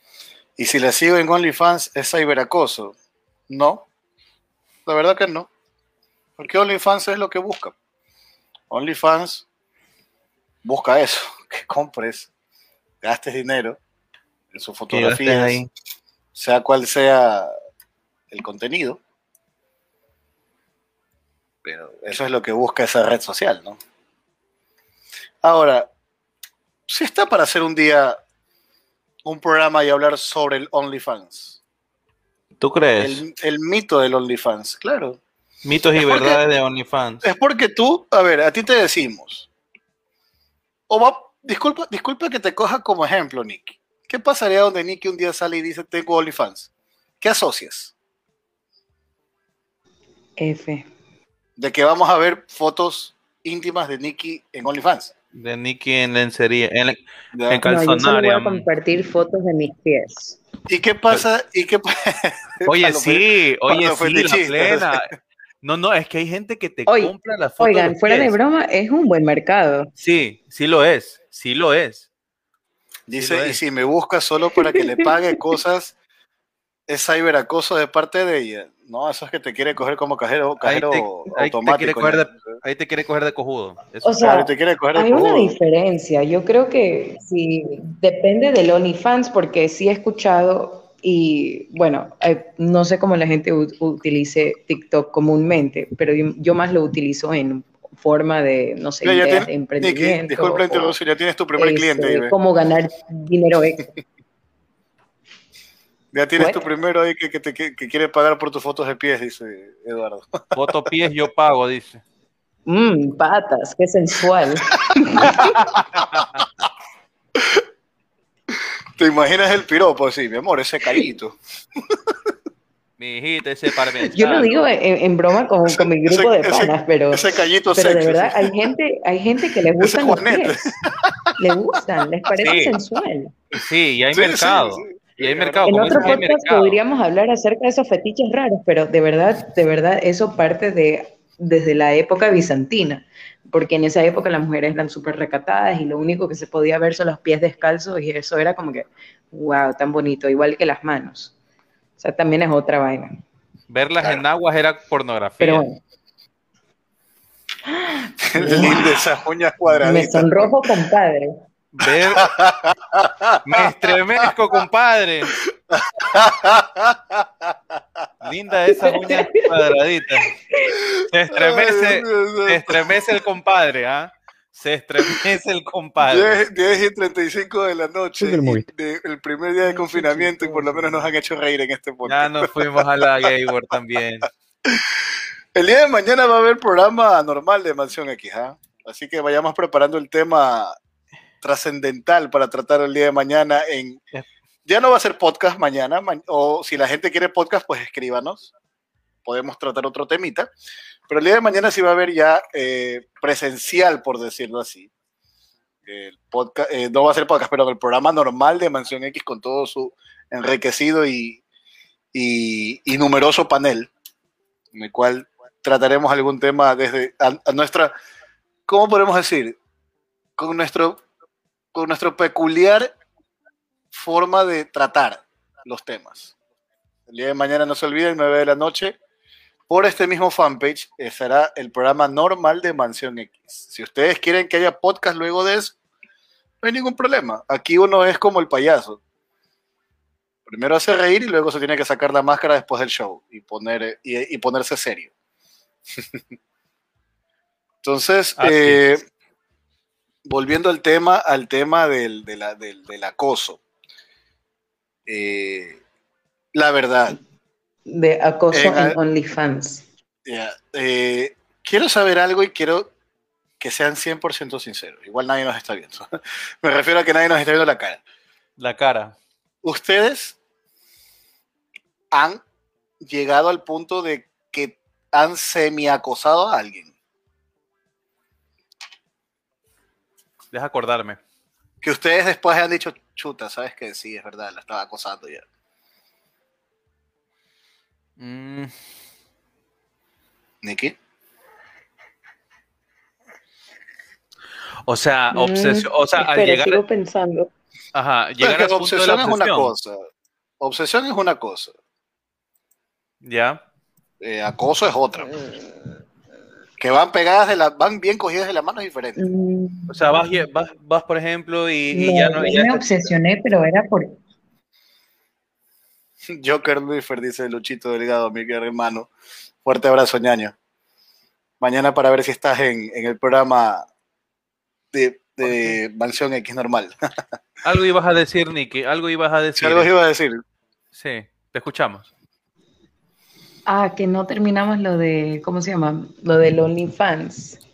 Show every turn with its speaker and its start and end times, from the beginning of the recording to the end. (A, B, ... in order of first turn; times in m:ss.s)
0:00.6-0:03.0 A
0:03.5-0:03.9 A
0:04.9-0:05.5 A
0:06.4-0:07.8 A
0:08.7-0:09.5 A
0:10.6-0:12.3 A
0:13.0-0:13.8 A
0:14.5-0:15.6 A
0:14.9-0:15.7 B
0:16.4-0:17.5 A
0:18.3-0:19.0 A
0:21.6-0:23.8 A
0:25.4-0:25.9 A
0:26.9-0:28.2 A
0:29.2-0:31.6 A
0:32.6-0:33.2 B
0:33.0-0:35.2 A
0:35.6-0:37.2 B
0:36.0-0:36.4 A
0:37.2-0:39.5 A
0:40.9-0:46.7 A
0:47.2-0:47.9 A
0:50.4-0:50.9 C
0:51.6-0:55.1 A
0:55.3-0:58.7 B
0:57.3-0:57.6 A
0:57.7-1:00.4 C
1:00.7-1:05.0 A
1:02.7-1:08.4 B
1:06.9-1:09.9 C
1:10.0-1:12.1 B
1:13.1-1:16.0 A
1:13.1-1:13.6 B
1:14.5-1:15.2 C
1:16.9-1:22.3 A
1:20.6-1:24.4 B
1:24.0-1:40.9 C
1:24.2-1:25.5 A
1:39.0-1:42.4 A
1:41.6-1:43.9 C
1:46.1-1:50.9 A
1:46.4-1:46.6 C
1:50.6-1:52.0 B
1:52.7-1:55.7 C
1:55.1-1:56.7 A
1:55.2-1:56.4 B
1:57.4-1:57.6 A
1:58.5-2:01.4 A
2:01.9-2:02.3 A
2:03.0-2:04.6 B
2:04.1-2:10.6 C
2:05.8-2:08.6 A
2:09.8-2:11.4 A
2:11.4-2:13.3 C
2:12.4-2:12.8 B
2:13.6-2:16.8 B
2:14.1-2:16.2 A
2:15.7-2:31.4 C
2:32.0-2:33.1 C
2:33.7-2:35.6 B
2:35.4-2:35.8 C
2:37.7-2:39.0 C
2:38.3-2:40.6 A
2:39.8-2:41.4 C
2:41.7-2:42.4 B
2:41.8-2:44.3 A
2:43.4-2:45.4 B
2:45.7-2:48.1 A
2:48.2-2:50.4 B
2:48.8-2:49.5 C
2:50.8-2:53.0 A
2:51.0-2:56.4 B
2:56.0-3:03.3 A
3:02.1-3:04.3 B
3:04.7-3:10.8 A
3:11.4-3:14.0 A
3:14.7-3:18.5 A
3:19.2-3:20.5 A
3:21.1-3:24.9 A
3:25.9-3:31.4 A
3:32.1-3:33.9 A
3:34.7-3:37.9 A
3:38.7-3:39.6 A
3:40.4-3:41.0 A
3:41.7-3:42.9 A
3:43.9-3:46.3 A
3:47.1-3:49.0 A
3:49.7-3:55.8 A
3:56.6-3:59.0 A
4:00.5-4:05.1 A
4:06.0-4:06.2 A
4:07.8-4:09.0 A
4:08.4-4:08.8 B
4:10.3-4:13.6 A
4:15.1-4:15.8 A
4:16.5-4:17.2 A
4:17.9-4:19.8 C
4:18.5-4:19.0 A
4:20.3-4:22.9 A
4:23.6-4:28.0 A
4:28.6-4:29.2 B
4:29.6-4:30.4 A
4:32.1-4:32.4 A
4:33.0-4:36.9 A
4:40.5-4:41.2 B
4:41.8-4:45.4 A
4:48.2-4:48.7 B
4:50.6-4:51.0 A
4:54.9-4:56.8 B
4:55.3-4:57.5 C
4:57.9-4:59.7 B
4:58.4-5:00.0 A
5:00.6-5:01.8 A
5:03.2-5:03.6 B
5:04.2-5:05.3 A
5:06.8-5:09.3 A
5:09.2-5:09.9 C
5:09.9-5:13.0 B
5:11.9-5:14.2 C
5:16.3-5:19.1 A
5:19.6-5:20.6 A
5:21.6-5:23.8 A
5:24.9-5:26.9 A
5:25.4-5:25.8 B
5:27.6-5:29.9 B
5:29.6-5:30.4 A
5:30.9-5:32.1 B
5:33.7-5:37.6 C